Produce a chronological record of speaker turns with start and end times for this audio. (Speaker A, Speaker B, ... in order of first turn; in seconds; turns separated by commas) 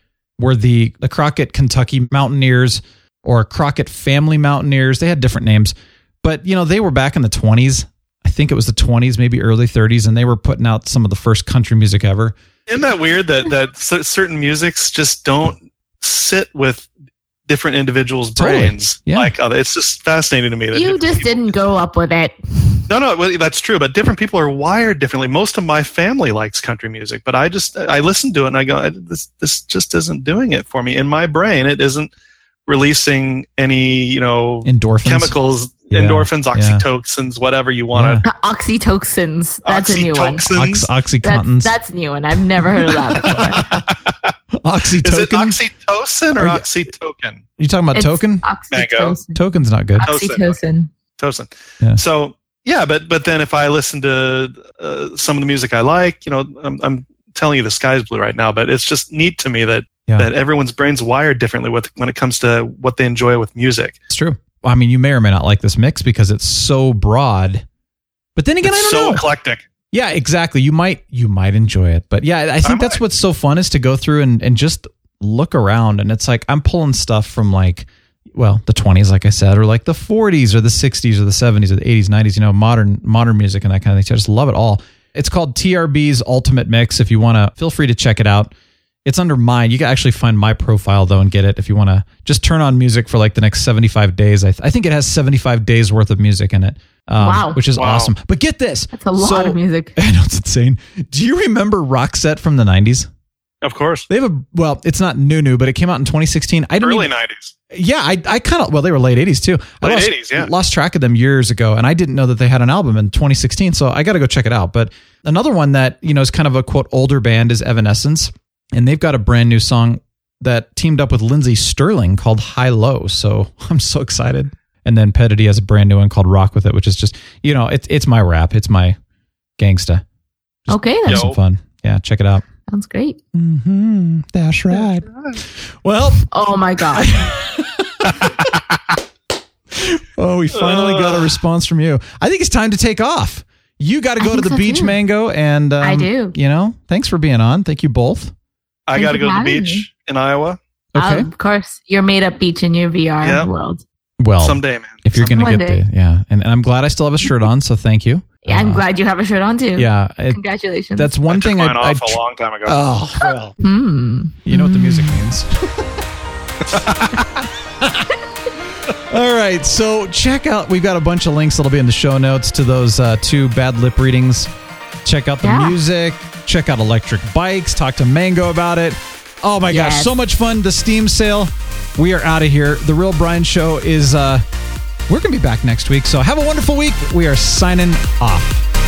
Speaker A: 0.4-12.3, Speaker B: 12.7-16.9, Speaker B: 17.5-21.4, Speaker A: 18.4-19.3, Speaker C: 20.7-22.8, Speaker B: 22.9-32.1, Speaker B: 32.7-38.2, Speaker A: 34.6-35.4, Speaker A: 35.9-36.8, Speaker A: 37.9-38.3, Speaker C: 38.2-40.5, Speaker B: 39.6-40.9, Speaker A: 40.5-41.7, Speaker C: 41.2-43.7, Speaker A: 43.2-43.9, Speaker A: 44.5-45.6, Speaker B: 45.0-47.4, Speaker A: 46.4-46.7, Speaker A: 47.6-48.5, Speaker C: 47.9-49.4, Speaker B: 48.7-49.2, Speaker A: 49.4-50.1, Speaker C: 50.0-50.9, Speaker B: 50.0-50.6, Speaker B: 51.2-64.0, Speaker A: 64.1-67.7, Speaker A: 68.4-69.2, Speaker B: 68.6-69.6, Speaker A: 69.9-88.5, Speaker B: 72.6-73.0, Speaker A: 89.0-103.1, Speaker C: 97.2-97.6, Speaker B: 97.8-98.1, Speaker C: 98.9-100.0, Speaker B: 103.6-104.1, Speaker A: 104.1-107.1, Speaker B: 106.8-107.5, Speaker A: 107.7-129.0, Speaker B: 109.8-110.5, Speaker A: 129.6-130.0, Speaker A: 130.7-132.4, Speaker C: 130.7-131.3, Speaker B: 131.1-131.4, Speaker C: 132.7-133.2, Speaker A: 133.3-135.1, Speaker B: 135.1-135.4, Speaker A: 135.7-136.3, Speaker C: 136.3-137.3, Speaker A: 136.9-138.6, Speaker A: 139.7-148.3, Speaker B: 140.5-141.3, Speaker C: 144.2-145.0, Speaker C: 145.8-146.3, Speaker B: 148.9-150.6, Speaker C: 149.0-149.8, Speaker A: 150.9-151.3, Speaker C: 151.0-153.8, Speaker B: 153.2-153.5, Speaker A: 154.2-158.8, Speaker B: 154.4-155.5, Speaker C: 155.3-155.8, Speaker C: 158.4-161.1, Speaker A: 159.8-160.4, Speaker A: 160.9-163.6, Speaker B: 161.3-162.8, Speaker C: 163.6-165.2, Speaker A: 164.4-165.9, Speaker B: 166.7-167.2, Speaker A: 167.8-168.1, Speaker A: 169.0-174.5, Speaker A: 175.1-184.4, Speaker C: 175.4-175.8, Speaker C: 179.7-180.1, Speaker A: 185.1-188.7